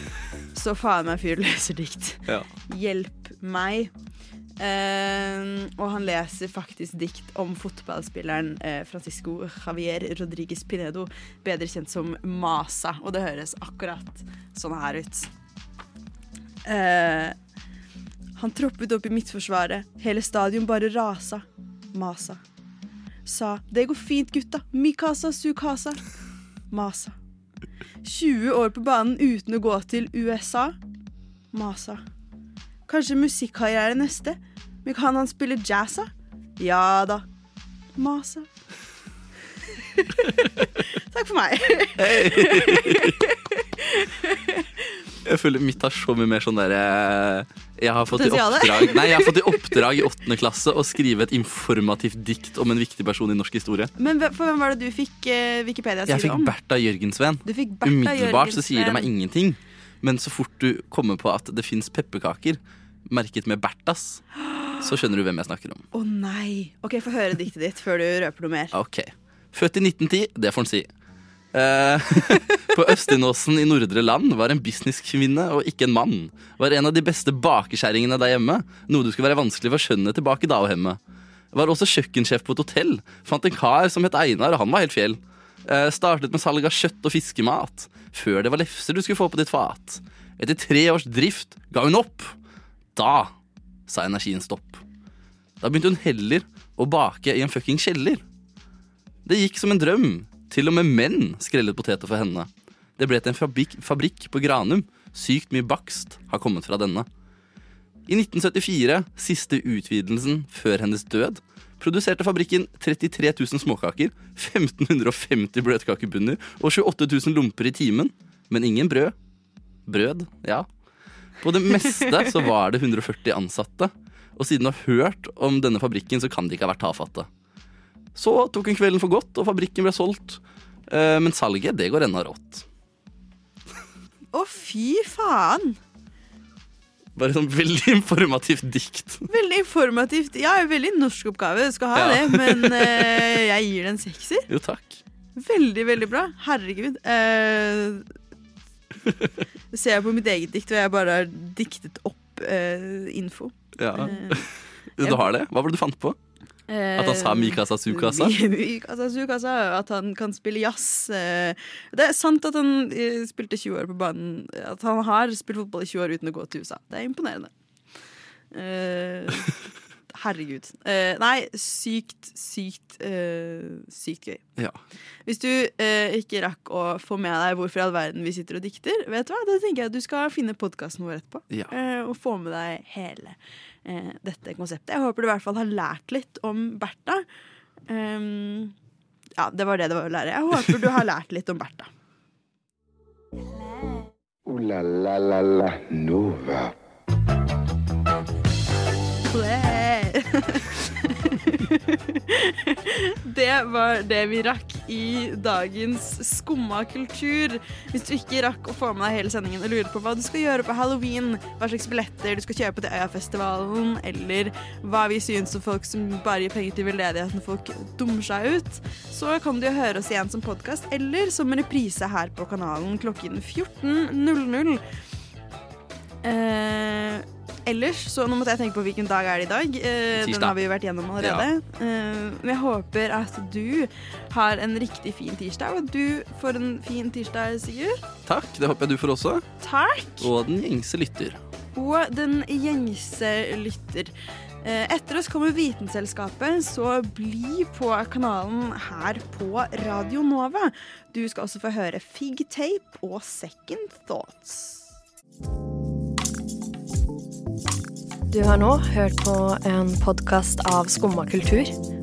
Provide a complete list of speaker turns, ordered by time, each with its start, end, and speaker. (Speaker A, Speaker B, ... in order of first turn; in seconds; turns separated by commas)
Speaker A: 0.5-3.9, Speaker A: 4.6-15.3, Speaker A: 16.6-17.4, Speaker A: 18.4-22.4, Speaker A: 23.2-26.0, Speaker A: 26.7-27.2, Speaker A: 28.0-30.8, Speaker A: 31.5-32.0, Speaker A: 32.9-37.2, Speaker A: 38.0-38.5, Speaker A: 39.9-40.4, Speaker A: 41.0-45.0, Speaker B: 42.0-43.2, Speaker B: 45.2-53.9, Speaker A: 48.1-49.8, Speaker A: 54.0-56.5, Speaker B: 56.1-64.2, Speaker A: 57.4-59.1, Speaker A: 64.4-64.7, Speaker B: 64.8-65.8, Speaker A: 65.9-68.7, Speaker B: 68.7-70.9, Speaker B: 71.5-81.0, Speaker B: 81.5-92.3, Speaker B: 92.9-93.3, Speaker B: 93.9-94.8, Speaker B: 95.6-98.2, Speaker B: 99.2-107.1, Speaker B: 108.1-119.1, Speaker B: 119.9-120.7, Speaker B: 121.4-127.3, Speaker B: 128.1-132.7, Speaker A: 134.3-135.8, Speaker B: 137.2-139.2, Speaker A: 139.3-144.5, Speaker B: 141.9-143.2, Speaker B: 144.5-145.0, Speaker A: 145.3-148.1, Speaker A: 149.7-155.2, Speaker B: 153.8-156.2, Speaker A: 156.7-167.5, Speaker B: 156.9-158.3, Speaker A: 168.5-169.5, Speaker A: 170.1-174.4, Speaker A: 175.2-187.2, Speaker A: 187.9-188.7, Speaker A: 189.4-191.9, Speaker C: 194.4-196.7, Speaker A: 199.3-224.8, Speaker A: 226.2-238.0, Speaker B: 230.2-230.6, Speaker B: 231.2-231.5, Speaker B: 238.2-239.4, Speaker A: 239.6-240.3, Speaker B: 240.2-241.4, Speaker A: 241.7-244.1, Speaker A: 244.6-254.8, Speaker D: 258.3-261.7